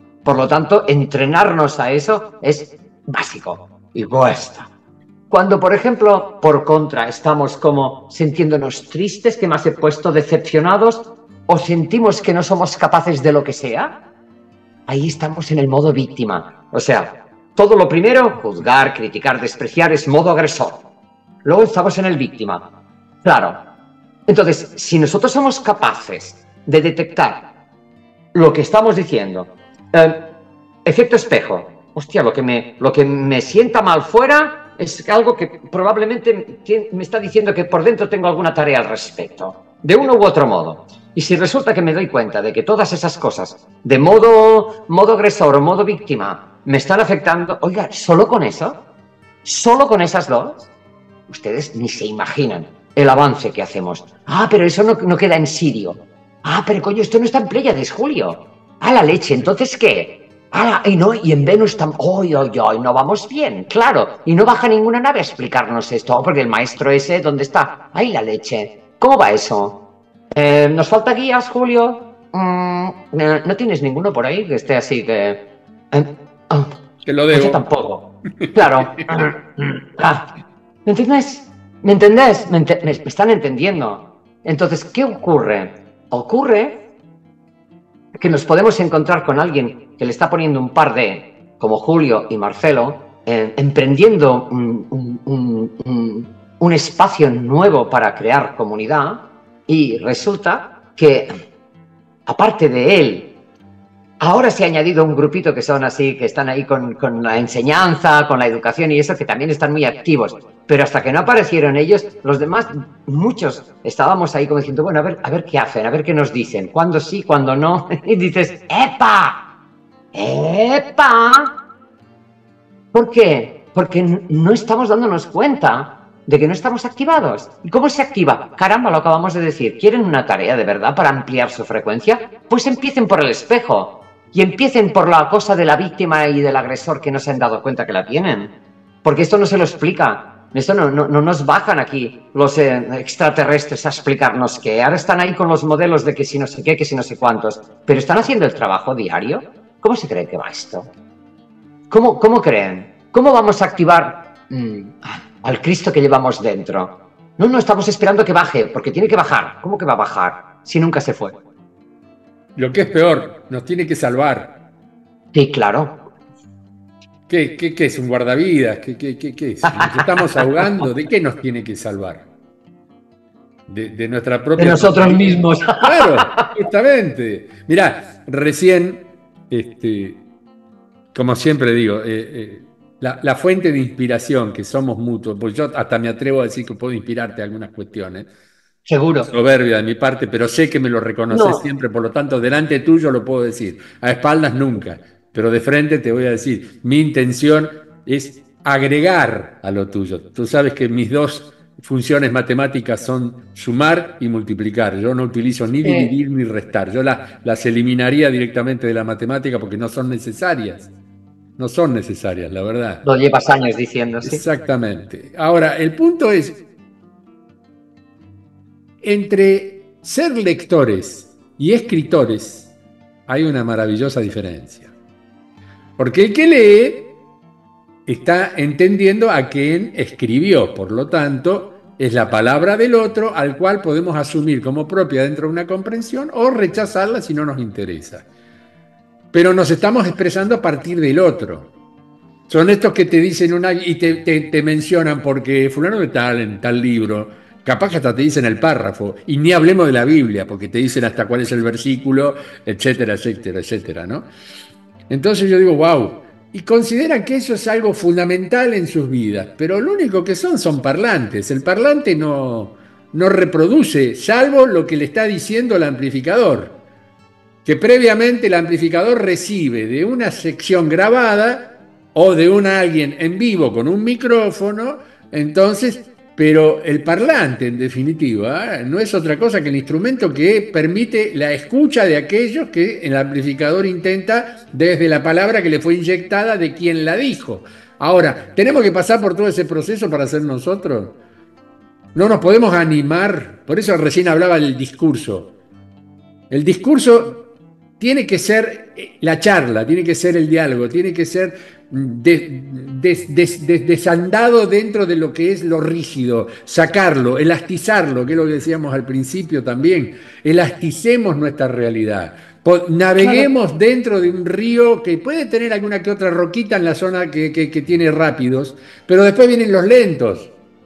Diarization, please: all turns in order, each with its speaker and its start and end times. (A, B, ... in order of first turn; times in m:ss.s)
0:00.2-0:04.7 A
0:05.3-0:13.9 A
0:14.9-0:20.8 A
0:21.4-0:22.6 A
0:23.2-0:23.6 A
0:24.3-0:27.4 A
0:28.3-0:30.2 A
0:30.8-0:48.8 A
0:49.4-0:50.6 A
0:51.3-1:09.8 A
1:10.3-1:15.4 A
1:15.9-1:16.7 A
1:17.0-1:17.6 B
1:17.3-1:20.3 A
1:18.4-1:19.0 B
1:20.8-1:26.8 A
1:28.2-1:41.3 A
1:42.3-1:43.3 A
1:44.2-1:59.4 A
2:00.1-2:01.5 A
2:02.9-2:18.5 A
2:19.0-2:30.9 A
2:31.9-2:41.3 A
2:42.6-2:44.5 B
2:45.3-2:46.0 A
2:47.3-2:52.2 B
2:49.6-2:50.8 A
2:53.7-3:00.2 B
2:54.6-2:56.5 A
3:01.1-3:08.3 B
3:08.8-3:09.3 A
3:09.2-3:30.9 B
3:11.3-3:11.6 A
3:25.8-3:26.1 A
3:31.6-3:33.0 B
3:33.0-3:34.4 A
3:34.2-3:36.6 B
3:39.0-3:42.7 B
3:43.3-3:44.9 B
3:46.0-3:47.0 B
3:48.0-3:58.2 B
3:59.3-4:01.7 B
4:02.5-4:14.3 B
4:15.1-4:26.7 B
4:27.6-4:51.1 B
4:52.1-4:55.5 B
4:56.5-4:57.4 B
4:58.0-5:20.5 B